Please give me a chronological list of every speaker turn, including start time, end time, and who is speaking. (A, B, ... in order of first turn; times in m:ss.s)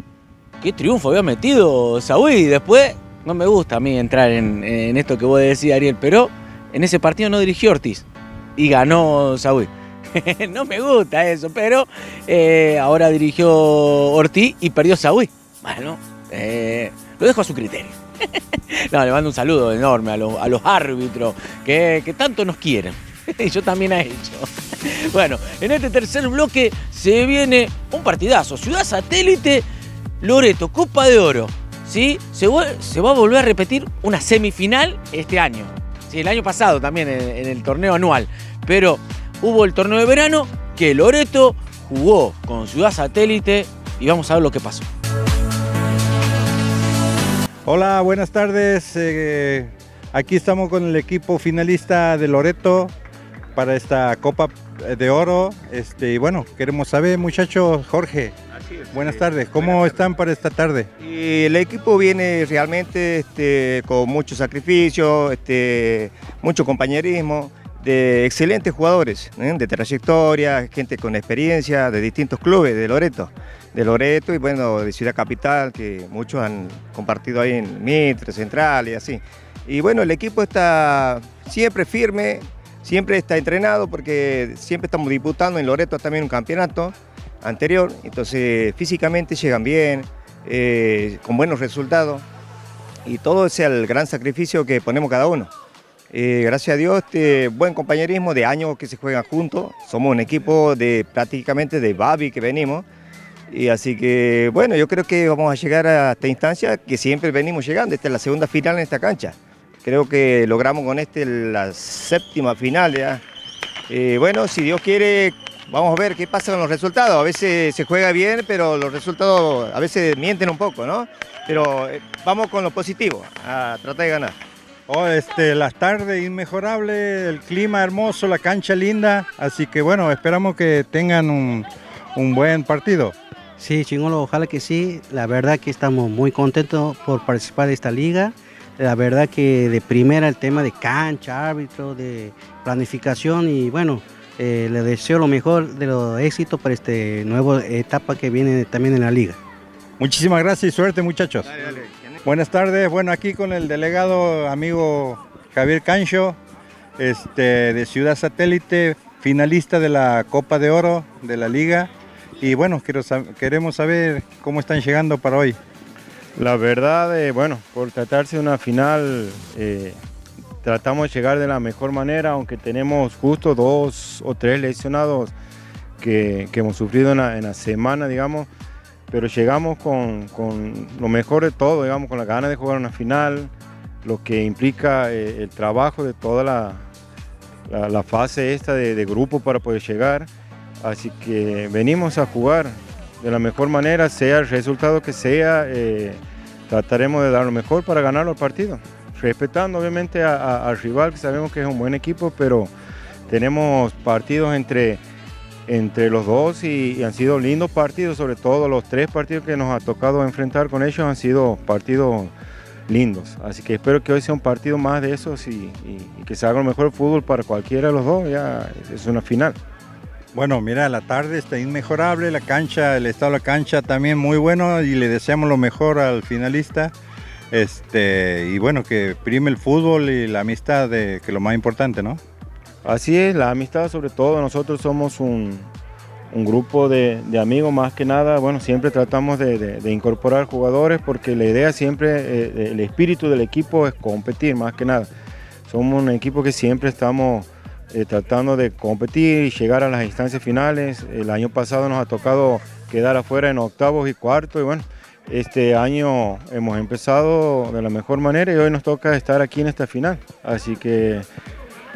0:00.6-0:08.0 A
0:08.6-0:18.0 A
0:18.7-0:29.6 A
0:30.2-0:44.8 A
0:47.7-0:52.9 B
0:53.6-0:58.4 B
0:58.6-1:00.0 C
0:58.9-1:00.9 B
1:01.0-1:32.2 C
1:33.1-1:35.5 C
1:36.1-1:42.9 C
1:43.5-1:53.2 C
1:53.9-2:04.4 C
2:04.9-2:13.2 B
2:13.6-2:29.4 D
2:30.0-2:31.5 B
2:31.5-2:32.2 C
2:32.2-2:36.4 B
2:37.0-2:45.6 B
2:46.4-2:50.0 E
2:50.6-2:55.3 E
2:56.0-2:58.5 E
2:59.1-3:03.5 E
3:04.0-3:06.8 E
3:07.7-3:10.3 E
3:10.8-3:22.7 E
3:23.3-3:25.0 E
3:25.7-3:32.3 E
3:32.9-3:39.6 E
3:40.3-3:46.9 B
3:47.5-3:52.2 B
3:52.8-3:55.7 E
3:56.3-4:05.1 E
4:05.7-4:21.3 E